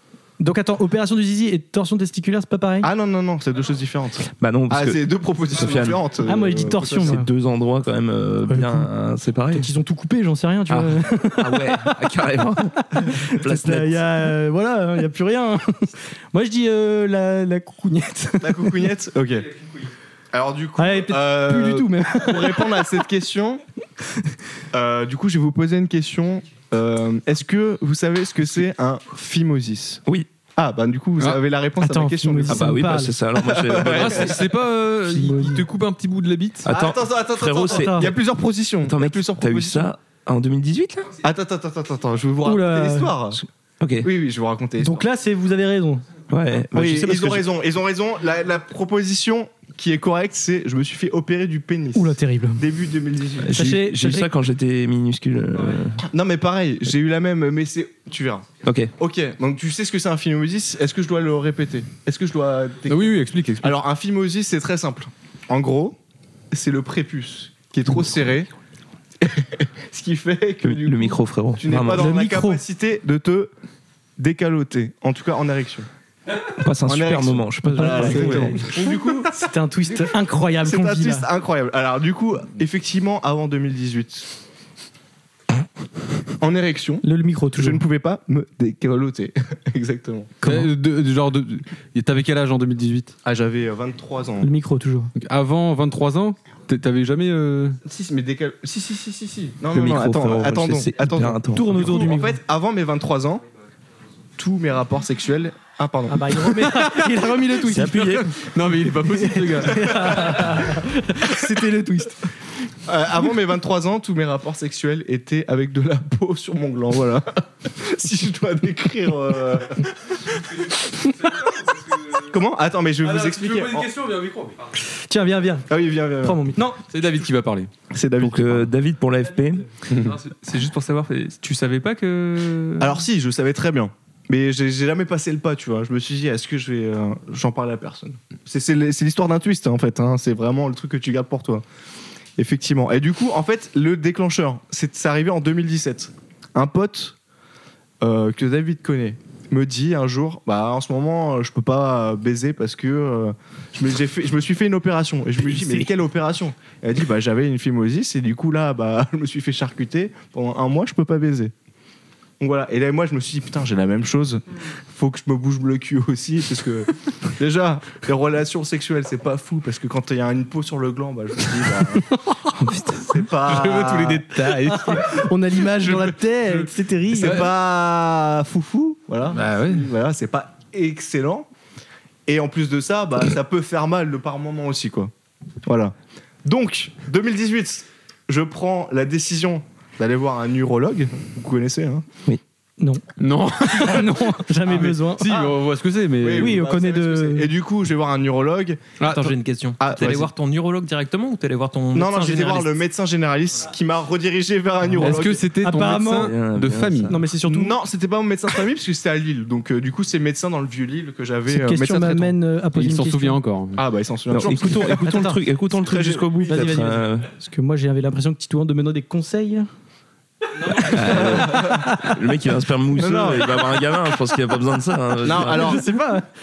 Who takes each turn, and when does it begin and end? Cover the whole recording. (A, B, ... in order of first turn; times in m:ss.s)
0:00.4-0:02.9 A
0:02.8-0:07.2 B
0:04.3-0:06.0 C
0:06.2-0:07.3 A
0:06.9-0:09.7 C
0:08.5-0:08.9 A
0:09.5-0:11.9 A
0:10.7-0:14.3 C
0:12.9-0:18.9 A
0:18.4-0:19.6 B
0:20.3-0:23.6 B
0:20.8-0:22.9 A
0:24.7-0:30.0 B
0:30.6-0:34.4 B
0:31.8-0:33.2 A
0:32.5-0:34.5 C
0:33.8-0:36.7 D
0:35.1-0:35.7 A
0:36.6-0:38.2 C
0:36.7-0:39.9 B
0:37.6-0:38.1 A
0:38.8-0:41.1 C
0:41.2-0:43.4 B
0:42.4-0:43.1 A
0:43.8-0:44.1 C
0:44.0-0:45.1 B
0:44.8-0:46.0 A
0:46.3-0:47.5 C
0:46.7-0:53.7 B
0:52.0-0:52.6 A
0:53.4-0:56.0 C
0:53.5-0:54.3 A
0:56.1-1:06.0 B
0:58.6-0:58.9 C
1:02.9-1:03.8 D
1:06.5-1:08.5 B
1:09.2-1:13.5 B
1:10.6-1:12.1 C
1:11.9-1:12.6 A
1:14.2-1:15.9 B
1:16.5-1:18.7 C
1:16.9-1:20.1 B
1:17.7-1:21.3 A
1:20.6-1:24.3 B
1:26.4-1:30.4 B
1:27.0-1:27.8 A
1:30.4-1:33.1 D
1:33.2-1:34.5 B
1:34.4-1:35.1 A
1:35.2-1:37.8 D
1:37.8-1:43.4 B
1:39.7-1:42.0 C
1:41.5-1:42.4 A
1:44.4-1:46.6 B
1:46.1-1:48.2 A
1:46.7-1:47.1 D
1:47.7-1:48.4 C
1:47.8-1:50.6 D
1:49.0-1:52.3 A
1:52.9-2:01.5 B
2:02.0-2:03.9 B
2:03.0-2:04.6 D
2:04.9-2:05.7 A
2:05.7-2:06.5 B
2:06.2-2:06.8 A
2:06.9-2:07.7 D
2:07.9-2:08.7 B
2:08.2-2:09.7 C
2:09.9-2:10.2 D
2:09.9-2:12.9 E
2:12.8-2:21.6 B
2:22.4-2:27.2 B
2:28.0-2:41.5 B
2:42.4-2:52.1 B
2:52.6-2:53.0 C
2:53.0-2:54.3 B
2:53.4-2:57.5 D
2:54.5-2:57.5 A
2:57.1-3:01.5 B
2:59.3-2:59.9 D
3:02.3-3:05.1 B
3:05.7-3:12.1 B
3:13.2-3:16.6 D
3:13.7-3:15.3 A
3:15.3-3:15.7 B
3:16.2-3:18.8 B
3:16.4-3:17.5 A
3:19.0-3:19.4 D
3:19.0-3:22.8 E
3:19.8-3:20.3 B
3:21.9-3:25.4 B
3:24.8-3:26.3 A
3:25.0-3:27.1 D
3:26.2-3:27.2 C
3:27.1-3:27.8 A
3:27.4-3:32.4 B
3:31.5-3:33.4 A
3:32.8-3:33.8 D
3:33.8-3:36.8 B
3:34.3-3:37.3 C
3:34.9-3:35.4 A
3:36.5-3:39.7 A
3:40.7-3:42.1 A
3:40.7-3:45.8 C
3:40.9-3:41.9 B
3:43.0-3:43.7 B
3:45.2-3:45.9 B
3:45.4-3:46.3 A